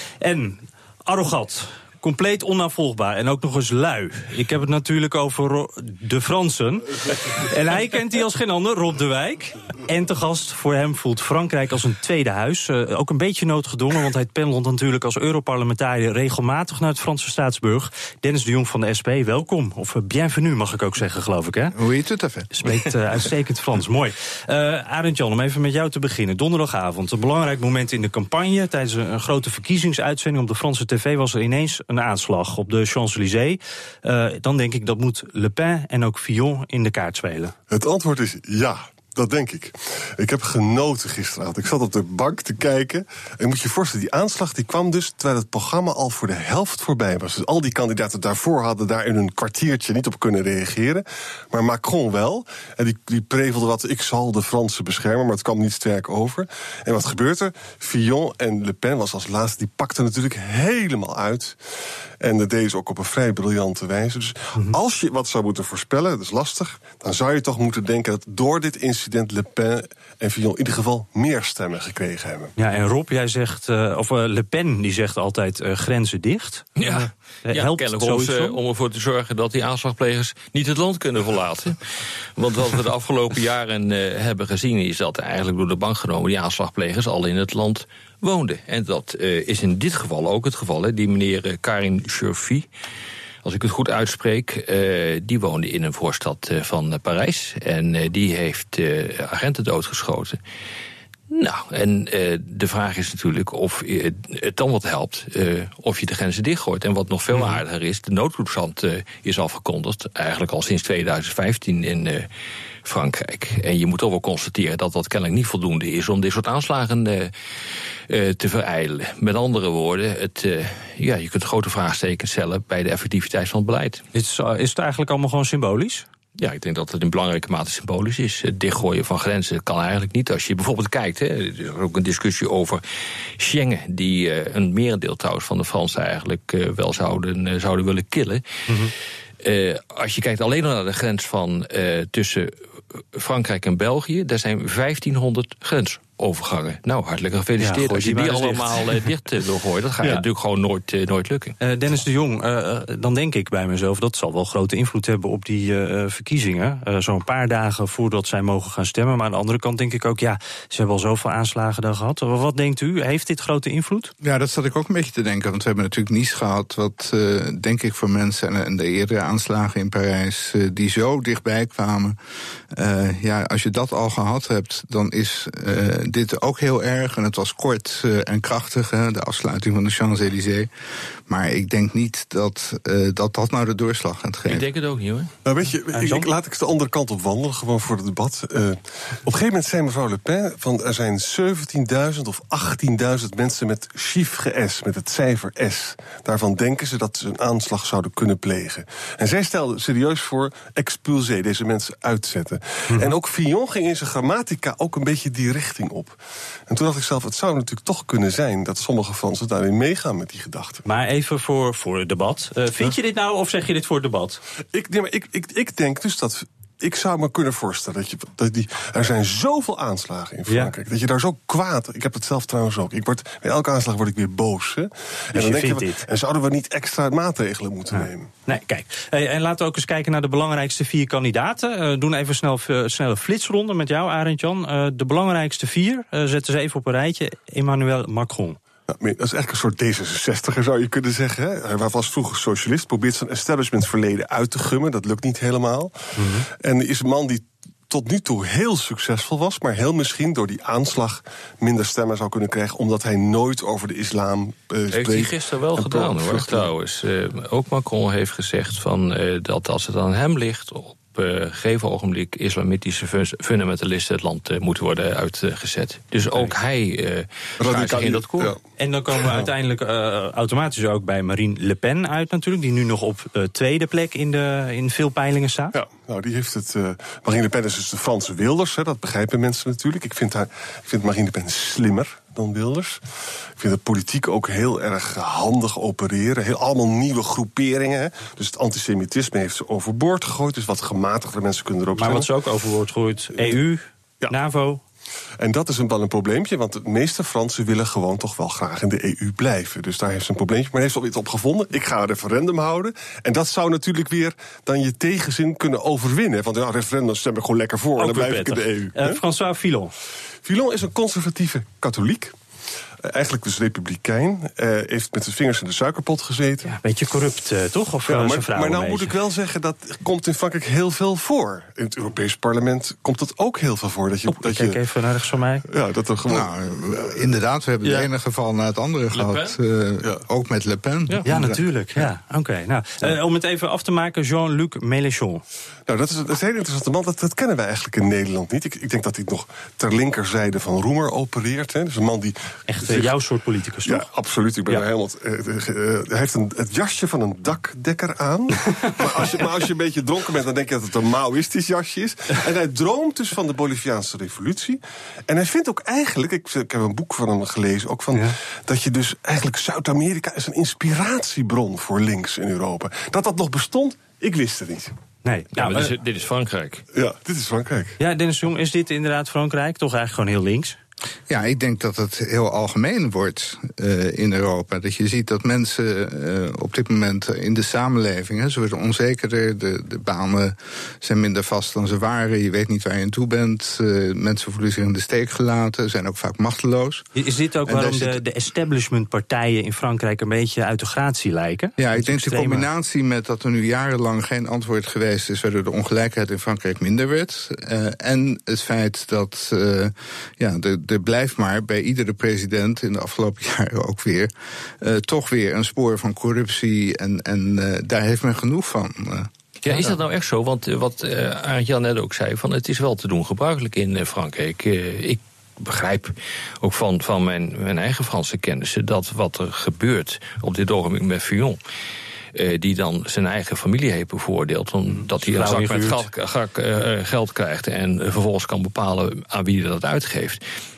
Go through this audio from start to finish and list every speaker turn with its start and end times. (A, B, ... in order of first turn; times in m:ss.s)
0:00.2-0:21.8 A
0:21.7-0:22.9 B
0:22.6-0:37.5 A
0:37.7-1:01.6 C
1:02.2-1:12.5 C
1:12.6-1:18.6 A
1:16.8-1:21.8 D
1:22.4-1:32.7 D
1:33.4-1:40.4 D
1:41.3-1:52.3 D
1:47.3-1:47.6 A
1:52.8-1:57.3 D
1:58.1-2:04.0 D
2:04.1-2:06.1 A
2:06.4-2:12.8 D
2:13.4-2:18.4 D
2:19.4-2:22.6 D
2:23.1-2:31.6 D
2:27.6-2:29.1 A
2:31.6-2:44.1 A
2:44.2-2:52.2 B
2:52.7-3:00.7 B
3:01.3-3:04.7 B
3:04.4-3:05.3 D
3:05.4-3:30.8 C
3:05.9-3:06.3 A
3:30.8-3:34.4 A
3:34.7-3:48.3 C
3:45.4-3:46.0 A
3:47.9-3:58.6 A
3:58.9-4:06.0 C
4:06.2-4:06.5 A
4:06.6-4:16.7 C
4:14.9-4:28.6 D
4:27.6-4:28.6 C
4:28.8-4:35.8 A
4:35.7-4:43.0 C
4:43.6-4:52.3 C
4:52.0-4:54.8 A
4:55.4-5:09.2 C
5:08.0-5:09.9 A
5:10.4-5:12.4 C
5:13.0-5:16.7 C
5:16.6-5:19.1 A
5:18.1-5:24.8 C
5:24.3-5:25.6 A
5:25.7-5:26.5 C
5:26.3-5:31.6 B
5:29.1-5:29.6 D
5:31.2-5:35.4 A
5:35.9-5:43.2 C
5:42.7-5:44.1 A
5:43.8-6:04.9 C
6:05.2-6:05.9 A
6:05.6-6:06.8 D
6:06.9-6:08.0 C
6:08.0-6:10.8 A
6:11.3-6:27.1 B
6:27.2-6:32.7 A
6:27.7-6:28.2 B
6:31.8-6:50.0 B
6:49.7-7:01.6 D
7:02.4-7:10.4 D
7:04.9-7:06.0 A